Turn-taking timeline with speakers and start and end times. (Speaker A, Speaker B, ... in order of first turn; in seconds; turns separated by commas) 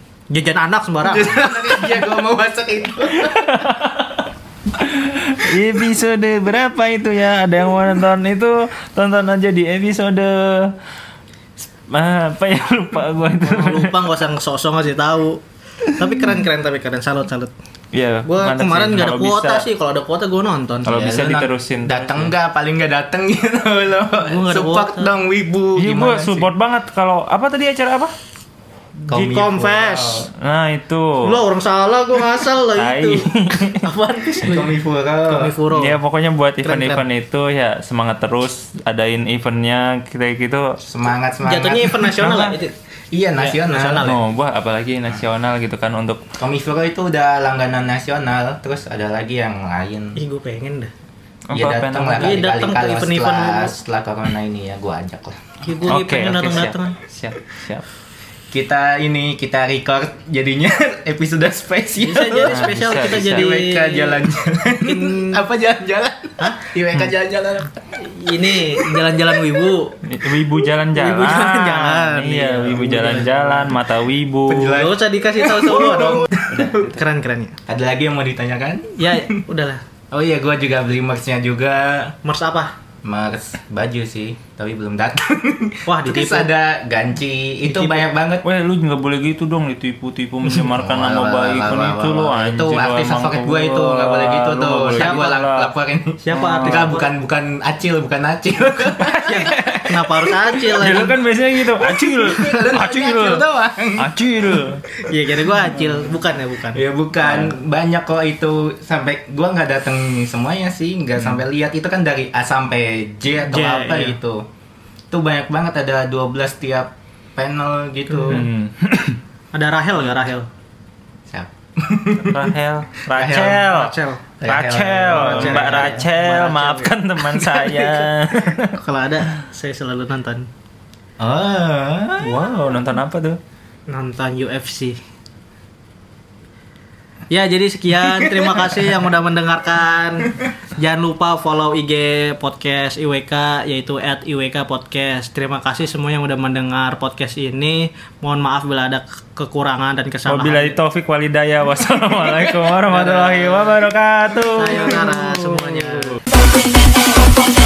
Speaker A: 0.3-2.1, Speaker B: 1.0-3.7, Speaker C: 3.1-10.8, Speaker C: 11.6-14.1, Speaker A: 13.4-17.5, Speaker C: 17.9-19.6, Speaker A: 18.3-21.0, Speaker C: 20.9-22.3, Speaker B: 20.9-26.5, Speaker A: 24.2-25.1, Speaker C: 25.8-28.1, Speaker A: 29.1-30.3, Speaker B: 29.1-30.3, Speaker C: 30.3-31.4, Speaker A: 31.2-34.7, Speaker C: 32.7-33.9, Speaker B: 34.4-35.5, Speaker A: 35.3-36.0, Speaker C: 35.7-40.8, Speaker A: 36.6-37.0, Speaker B: 40.8-42.0, Speaker A: 41.4-42.7, Speaker C: 42.0-42.6, Speaker B: 43.1-44.1, Speaker A: 43.4-44.2, Speaker C: 43.9-46.2, Speaker B: 46.4-50.2, Speaker A: 50.2-50.9, Speaker C: 51.5-52.4, Speaker B: 51.5-55.5, Speaker A: 52.1-53.8, Speaker A: 55.6-57.0, Speaker C: 55.9-57.8, Speaker B: 58.5-67.8, Speaker A: 62.0-64.2, Speaker C: 62.5-63.5, Speaker A: 64.8-65.4, Speaker A: 66.4-66.7, Speaker A: 68.0-70.0, Speaker B: 68.5-69.4, Speaker C: 70.0-74.9, Speaker A: 70.9-73.8, Speaker B: 74.5-76.7, Speaker A: 74.5-77.6, Speaker C: 75.8-77.0, Speaker B: 77.7-79.4, Speaker A: 79.0-79.8, Speaker B: 80.1-82.2, Speaker A: 82.2-82.7, Speaker B: 83.0-88.5, Speaker A: 85.9-86.5, Speaker A: 87.7-88.0, Speaker C: 88.4-95.7, Speaker B: 90.6-100.4, Speaker A: 95.0-95.3, Speaker A: 96.2-97.1, Speaker C: 96.3-96.9, Speaker C: 98.8-103.4, Speaker A: 99.2-101.2, Speaker B: 101.7-104.1, Speaker C: 104.0-104.8, Speaker A: 105.0-106.8, Speaker B: 106.7-114.5, Speaker C: 107.2-107.6, Speaker A: 113.4-114.2, Speaker B: 115.1-118.5, Speaker A: 118.1-118.5, Speaker C: 118.3-119.2, Speaker A: 119.5-120.5, Speaker B: 121.3-122.5, Speaker C: 122.2-128.8, Speaker B: 123.1-123.7, Speaker A: 123.7-124.2, Speaker B: 124.4-126.1, Speaker A: 125.1-128.0, Speaker A: 128.7-130.5, Speaker B: 131.2-132.4, Speaker C: 132.2-133.4, Speaker A: 133.9-135.0, Speaker A: 137.3-150.8, Speaker B: 138.1-138.6, Speaker C: 150.3-156.2, Speaker A: 152.9-153.8, Speaker A: 154.5-156.2